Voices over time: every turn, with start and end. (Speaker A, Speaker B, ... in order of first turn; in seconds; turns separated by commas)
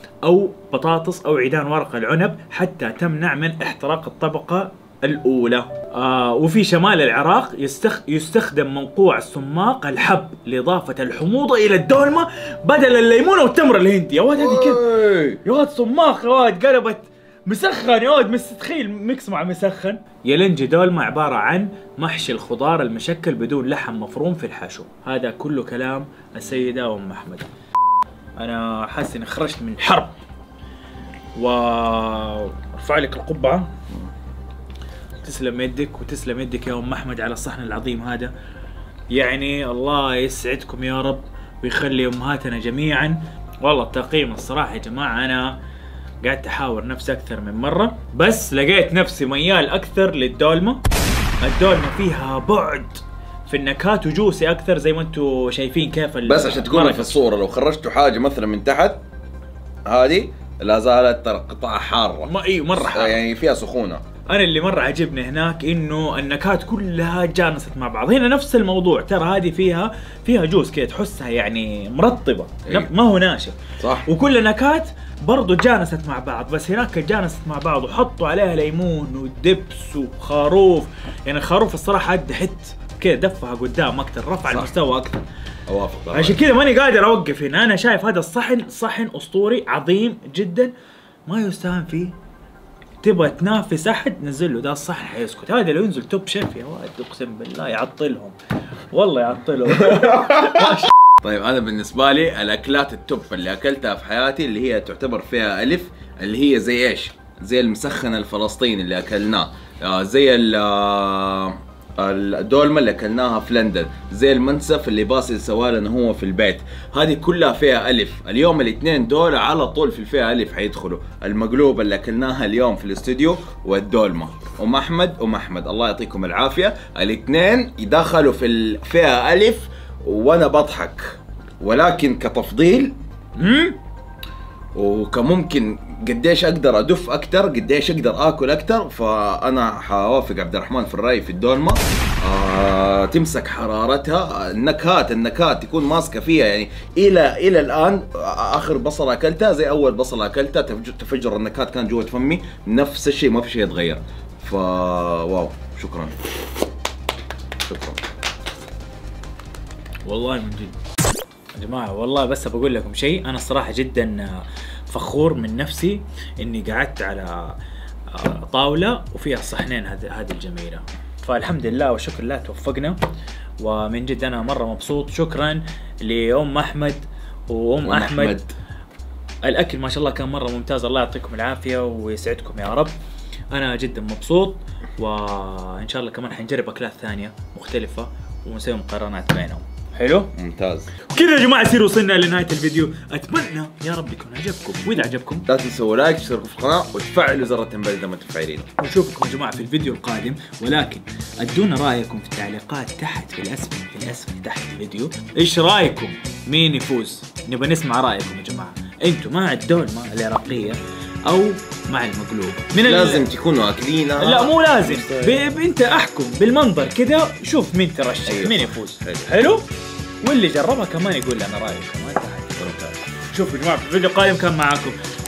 Speaker A: 0.2-14.8, Speaker B: 14.3-15.4, Speaker A: 15.4-27.5, Speaker A: 28.4-30.1, Speaker A: 31.4-33.7, Speaker A: 35.2-38.3, Speaker A: 39.1-45.6, Speaker A: 46.2-50.8, Speaker A: 51.4-57.2, Speaker B: 56.2-59.0, Speaker B: 59.9-64.0, Speaker A: 62.2-63.2, Speaker A: 64.3-85.2, Speaker B: 72.7-72.9, Speaker B: 73.8-74.1, Speaker B: 84.5-84.7, Speaker B: 85.7-86.4, Speaker A: 86.1-90.7, Speaker A: 91.3-92.1, Speaker A: 93.0-98.4, Speaker A: 98.9-100.9, Speaker B: 99.8-132.9, Speaker A: 133.4-133.8, Speaker B: 134.7-156.2, Speaker B: 157.6-158.0, Speaker A: 160.0-160.8, Speaker A: 161.5-167.6, Speaker A: 168.1-173.0, Speaker A: 173.6-178.4, Speaker B: 177.8-178.5, Speaker A: 179.4-182.9, Speaker A: 183.5-190.3, Speaker B: 190.3-190.9, Speaker A: 191.0-195.4, Speaker B: 195.5-198.7, Speaker A: 198.8-213.3, Speaker B: 212.7-215.4, Speaker A: 214.2-219.6, Speaker B: 218.3-219.3, Speaker A: 220.2-222.7, Speaker B: 222.6-223.0, Speaker A: 223.3-225.0